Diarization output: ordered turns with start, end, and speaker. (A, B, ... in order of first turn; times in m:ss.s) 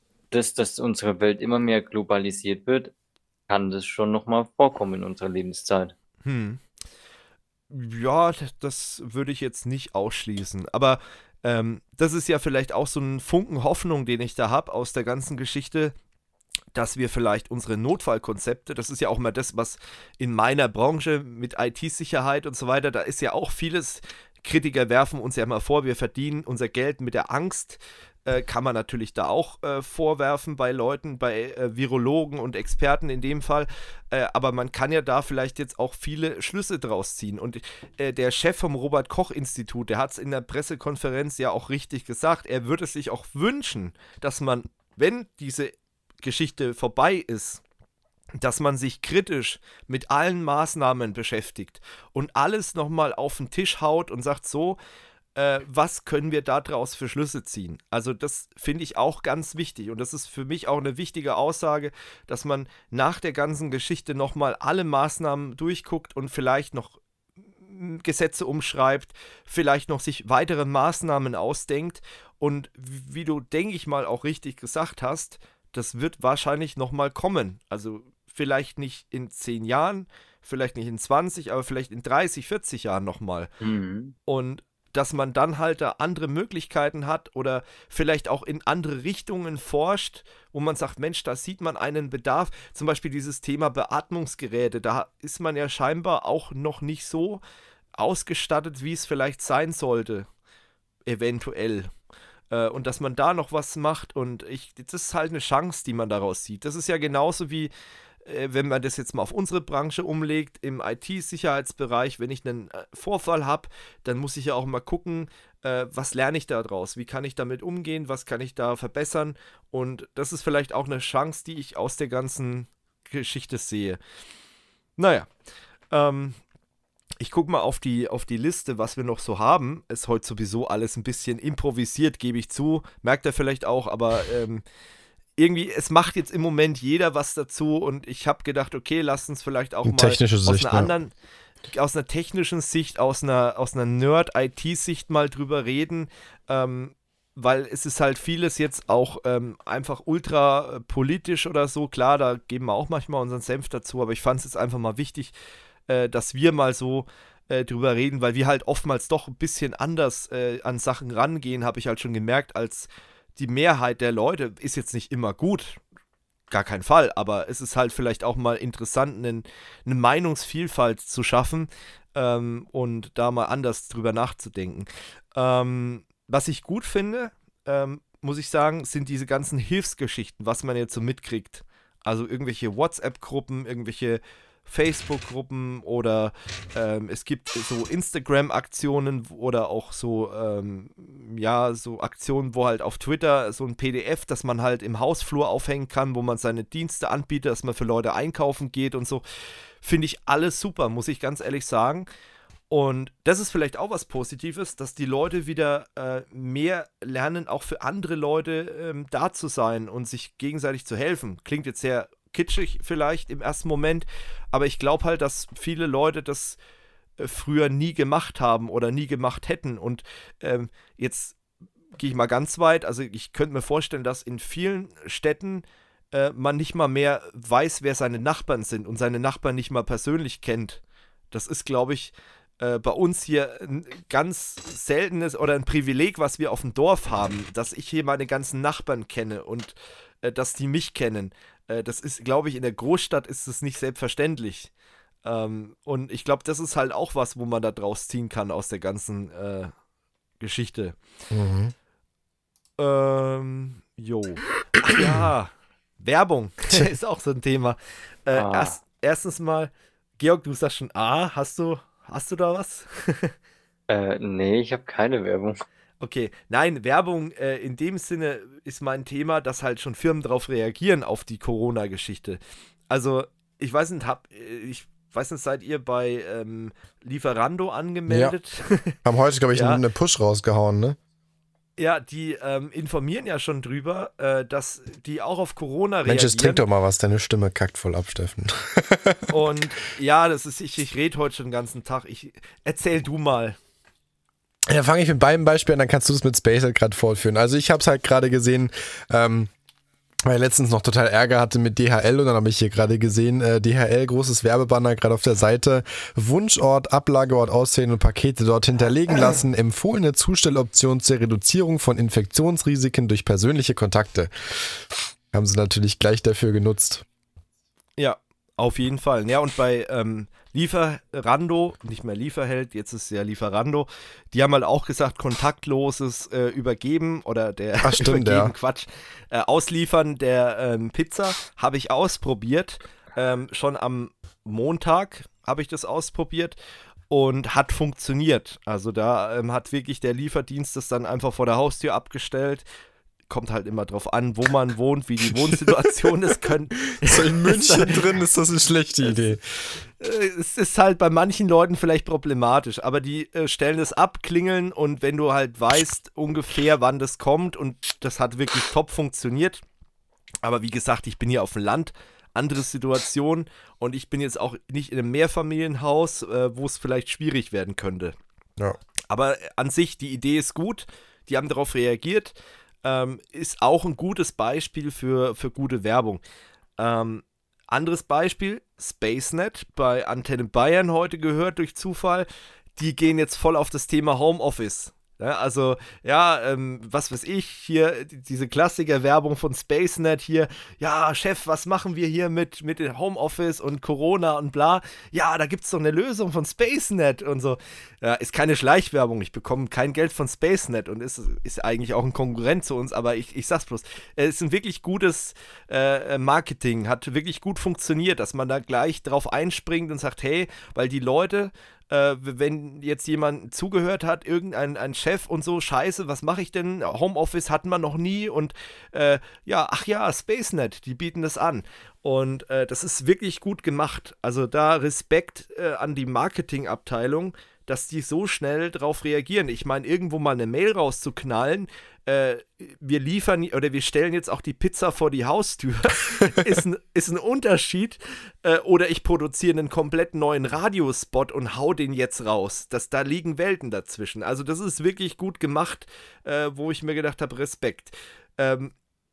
0:00.3-0:02.9 A
0:03.5-0:05.9 A
0:06.2-0:06.6 B
0:07.7-0:16.0 B
0:16.7-0:47.6 B
0:48.4-0:54.8 B
0:55.4-1:07.0 B
1:07.7-1:23.5 B
1:23.6-1:24.1 A
1:24.3-1:37.4 B
1:38.0-1:40.3 B
1:41.1-1:41.9 B
1:42.5-1:47.7 B
1:48.3-2:04.0 B
2:05.0-2:05.3 B
2:05.9-2:06.4 B
2:07.2-2:14.6 B
2:15.4-2:21.1 B
2:19.8-2:20.9 C
2:21.7-2:35.3 B
2:35.9-2:45.8 B
2:46.5-3:19.2 B
3:19.8-3:22.1 B
3:22.7-3:36.6 B
3:37.2-3:41.4 B
3:42.0-4:04.7 B
4:05.2-4:09.7 B
4:10.4-4:11.0 B
4:11.3-4:11.7 C
4:12.8-4:23.3 B
4:18.3-4:18.8 A
4:23.9-4:25.6 A
4:26.0-4:39.0 B
4:38.1-4:38.4 C
4:39.0-4:41.0 C
4:39.5-4:39.8 B
4:41.8-4:46.6 B
4:46.1-4:49.4 C
4:49.3-4:53.6 B
4:54.7-4:59.5 C
5:00.3-5:17.1 C
5:18.0-5:36.6 B
5:27.8-5:28.5 C
5:37.1-5:42.6 B
5:43.3-5:48.1 B
5:45.3-5:46.5 C
5:47.0-5:49.4 C
5:49.0-5:59.6 B
6:00.4-6:08.2 B
6:09.1-6:16.2 B
6:16.8-7:28.7 B